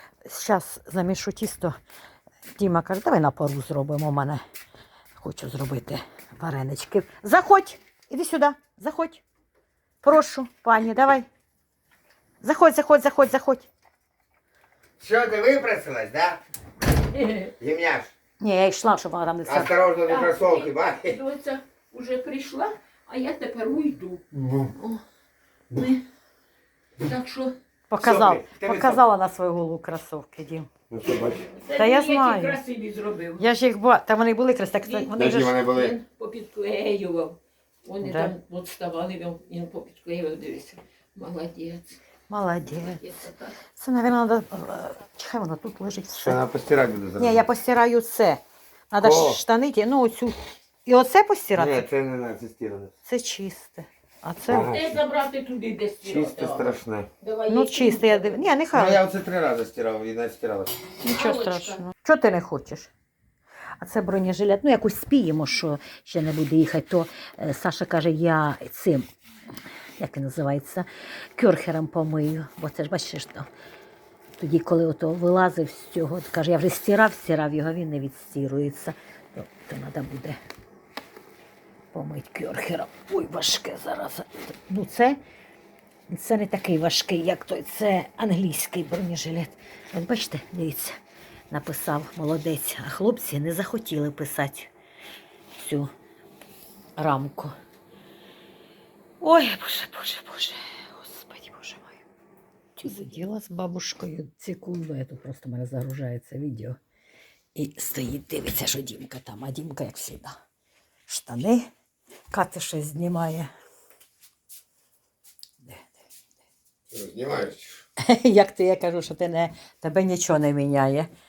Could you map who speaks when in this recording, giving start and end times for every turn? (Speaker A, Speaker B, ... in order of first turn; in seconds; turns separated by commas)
Speaker A: 0.2-1.8, Speaker A: 2.5-4.4, Speaker A: 5.2-9.2, Speaker A: 10.0-11.2, Speaker A: 12.4-13.7, Speaker B: 15.0-16.4, Speaker C: 17.1-17.5, Speaker B: 17.6-18.1, Speaker A: 18.4-19.8, Speaker B: 19.4-21.2, Speaker C: 20.1-24.2, Speaker B: 24.3-24.7, Speaker C: 24.8-25.0, Speaker C: 27.0-27.6, Speaker A: 27.9-30.7, Speaker B: 28.0-29.0, Speaker B: 30.9-31.5, Speaker C: 31.5-33.4, Speaker A: 31.7-32.6, Speaker A: 33.4-35.6, Speaker C: 34.8-41.9, Speaker B: 35.1-36.0, Speaker A: 38.0-38.3, Speaker A: 42.3-43.1, Speaker C: 42.7-43.5, Speaker A: 43.8-46.4, Speaker B: 46.1-47.5, Speaker A: 47.2-51.8, Speaker B: 49.0-49.4, Speaker B: 51.5-52.9, Speaker A: 53.0-54.7, Speaker B: 54.5-55.0, Speaker C: 54.5-58.4, Speaker B: 56.0-57.1, Speaker A: 57.5-59.0, Speaker B: 58.7-60.7, Speaker C: 61.0-61.8, Speaker A: 61.0-62.9, Speaker A: 63.8-69.1, Speaker A: 70.0-73.5, Speaker A: 74.4-80.4, Speaker A: 81.9-85.2, Speaker A: 86.1-91.0, Speaker A: 91.5-94.7, Speaker A: 95.5-95.9, Speaker A: 97.0-97.5, Speaker A: 99.2-102.0, Speaker A: 102.8-106.8, Speaker A: 107.5-110.4, Speaker A: 111.1-111.7, Speaker A: 112.3-113.5, Speaker A: 115.6-116.0, Speaker B: 116.9-117.8, Speaker A: 118.0-121.1